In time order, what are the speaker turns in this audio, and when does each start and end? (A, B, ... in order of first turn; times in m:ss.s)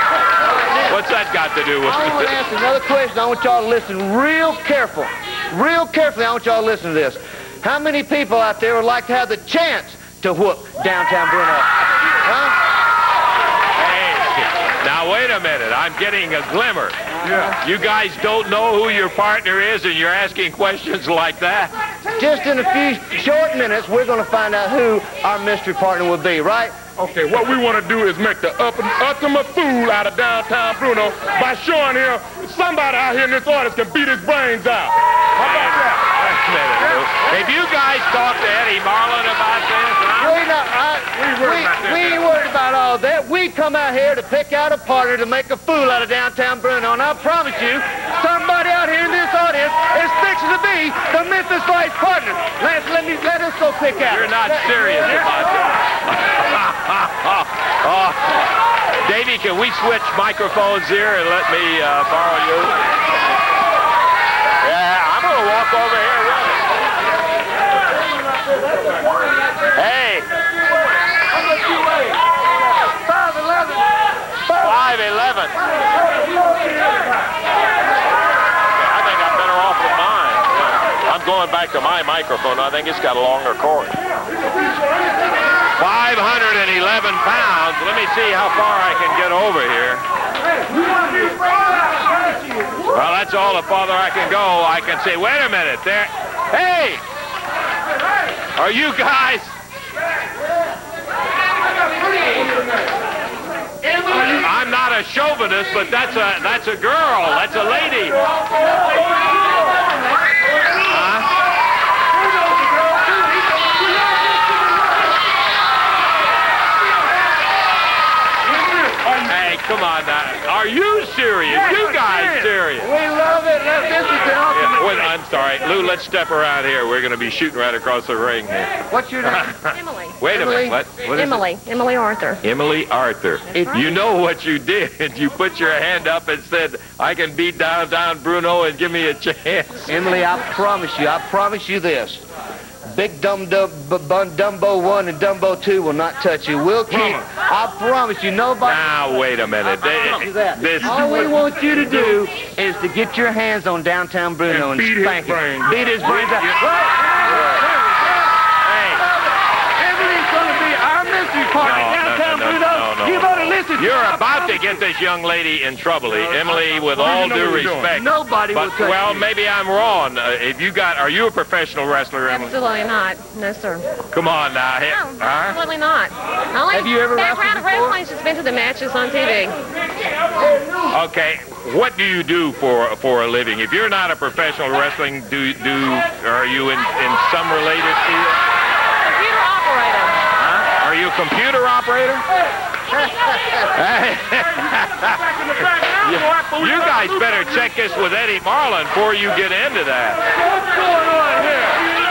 0:00.5-0:00.9 A
0:00.9-0:02.4 B
0:01.8-0:11.7 A
0:12.2-0:12.6 A
0:13.8-0:17.0 B
0:17.2-0:17.5 A
0:17.6-0:21.7 B
0:22.2-0:26.8 A
0:27.0-0:35.0 C
0:35.4-0:40.4 B
0:40.2-0:55.3 A
0:41.4-0:42.2 C
0:54.1-0:58.5 B
0:59.0-1:02.8 B
1:04.6-1:06.7 B
1:09.8-1:10.3 B
1:13.1-1:13.8 A
1:14.5-1:15.6 B
1:18.8-1:24.0 B
1:25.8-1:30.0 B
1:32.9-1:37.0 B
1:38.6-1:39.6 B
1:43.9-1:48.2 B
1:50.8-1:51.3 B
1:59.2-2:02.9 B
2:02.1-2:05.1 A
2:04.5-2:11.4 B
2:08.9-2:09.6 A
2:09.7-2:12.4 D
2:12.4-2:19.9 B
2:13.5-2:13.8 D
2:19.9-2:22.2 A
2:22.9-2:28.8 A
2:26.9-2:27.2 C
2:28.6-2:31.2 B
2:29.8-2:37.5 A
2:30.9-2:31.3 C
2:34.5-2:36.6 C
2:38.7-2:39.0 B
2:39.8-2:44.4 A
2:41.6-2:52.6 B
2:47.0-2:49.3 A
2:47.1-2:47.8 C
2:52.3-2:53.9 D
2:54.1-2:55.6 B
2:54.9-2:59.6 D
2:56.7-2:58.0 A
3:00.9-3:08.4 B
3:09.1-3:10.2 D
3:10.4-3:12.2 B
3:13.7-3:15.2 B
3:15.5-3:17.7 C
3:16.0-3:20.2 B